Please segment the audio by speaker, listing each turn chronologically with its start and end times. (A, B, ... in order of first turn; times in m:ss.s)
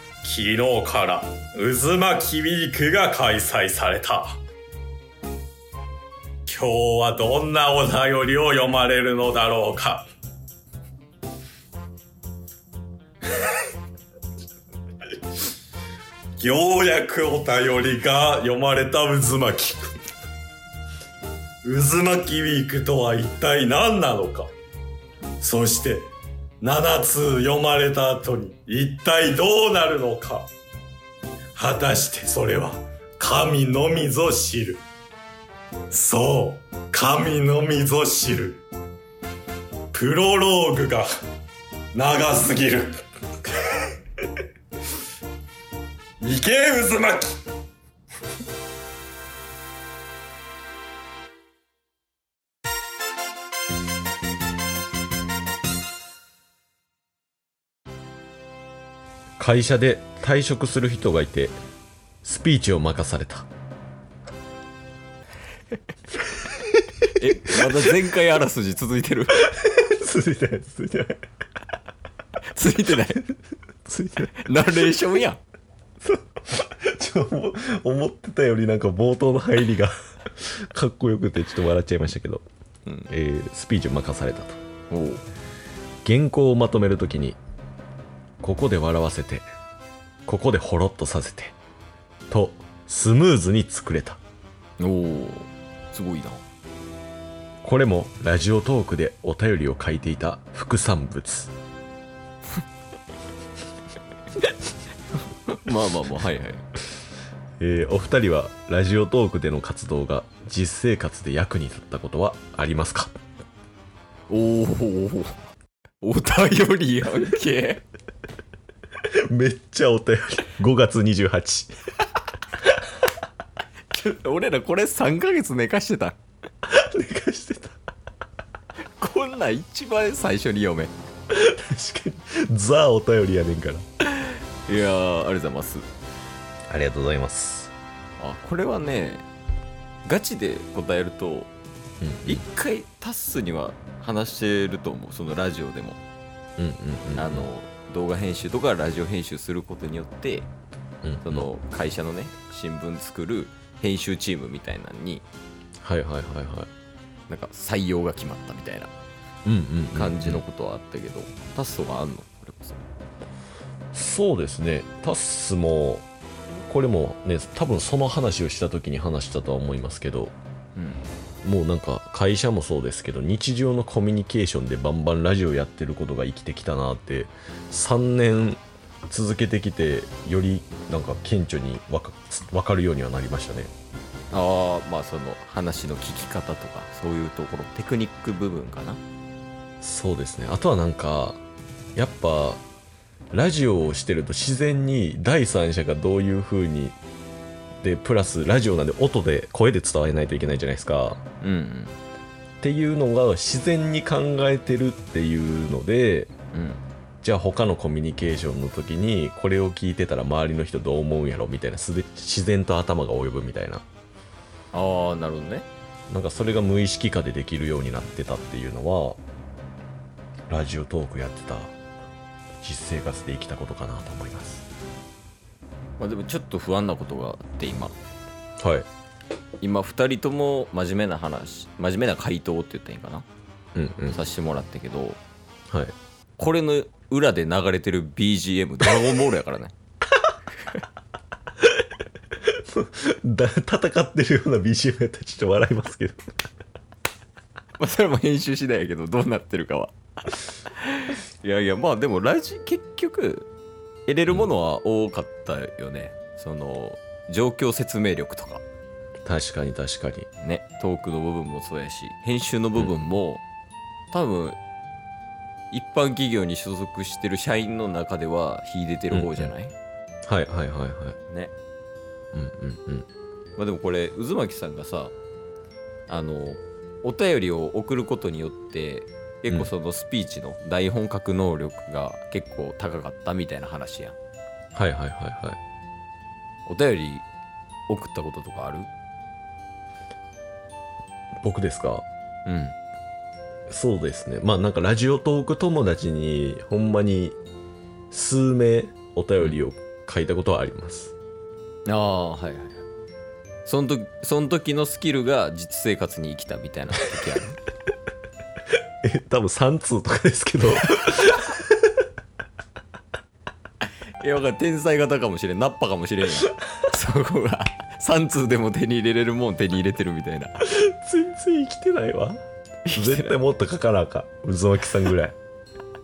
0:00.2-0:04.4 A
0:06.4-0:10.0 A
0:16.4-0:19.9 A
0:21.6-0:24.5 A
0:25.4-0:30.5 A
0:31.5-0:34.8 A
0:35.9-0:38.6 A
0:39.9-0:41.1 A
0:41.9-0:43.8 A
0:46.2-0:47.3 A
0:59.4-1:01.5 B
1:02.2-1:03.5 B
1:07.2-1:09.4 C
1:07.3-1:07.7 B
1:09.5-1:11.2 B
1:12.5-1:13.3 C
1:13.8-1:14.4 B
1:14.3-1:15.4 C
1:16.0-1:22.4 B
1:23.1-1:24.6 B
1:24.9-1:25.2 C
1:26.0-1:27.4 B
1:28.4-1:29.4 B
1:30.2-1:31.6 B
1:32.3-1:34.2 B
1:34.8-1:36.4 C
1:37.6-1:41.5 B
1:45.5-1:46.6 C
1:47.6-1:53.1 B
1:54.3-1:55.3 C
1:56.0-1:57.8 C
1:59.0-2:01.7 B
2:03.9-2:06.2 C
2:06.6-2:07.8 B
2:09.0-2:10.9 C
2:11.3-2:13.8 B
2:14.2-2:15.8 C
2:16.7-2:17.7 B
2:18.2-2:19.2 C
2:20.0-2:21.5 C
2:22.0-2:22.4 B
2:22.2-2:26.0 C
2:26.6-2:27.5 B
2:27.2-2:30.5 C
2:31.0-2:31.5 B
2:31.2-2:35.2 C
2:35.8-2:36.7 B
2:37.3-2:38.9 C
2:39.4-2:40.4 B
2:39.9-2:42.8 C
2:43.9-2:46.1 B
2:46.6-2:50.3 B
2:50.8-2:51.0 C
2:51.4-3:03.7 B
3:04.3-3:09.0 C
3:09.8-3:11.4 B
3:12.0-3:12.6 B
3:13.3-3:17.0 B
3:17.8-3:21.2 B
3:21.4-3:22.0 C
3:22.6-3:26.3 B
3:26.5-3:26.8 C
3:27.2-3:33.8 B
3:34.7-3:35.7 C
3:36.1-3:39.2 B
3:40.5-3:41.7 B
3:42.6-3:44.6 B
3:46.0-3:48.0 C
3:48.6-3:48.9 B
3:49.6-3:53.2 C
3:53.7-3:54.2 B
3:54.1-3:55.2 C
3:56.4-3:59.7 C
4:02.4-4:06.2 B
4:07.8-4:13.5 C
4:14.1-4:18.6 C
4:19.2-4:20.3 B
4:20.4-4:23.4 C
4:24.1-4:24.6 C
4:25.7-4:29.7 C
4:29.1-4:29.5 B
4:30.3-4:31.2 B
4:31.3-4:31.5 C
4:32.3-4:33.0 B
4:33.6-4:35.1 C
4:36.1-4:44.2 C
4:44.7-4:45.6 B
4:46.6-4:47.2 C
4:47.9-4:48.9 C
4:51.4-4:52.0 B
4:52.4-4:52.8 C
4:53.7-4:57.4 B
4:58.1-5:01.1 B
5:01.8-5:02.8 C
5:03.6-5:07.6 C
5:09.0-5:11.9 B
5:14.2-5:20.6 C
5:20.7-5:25.4 B
5:22.8-5:23.3 C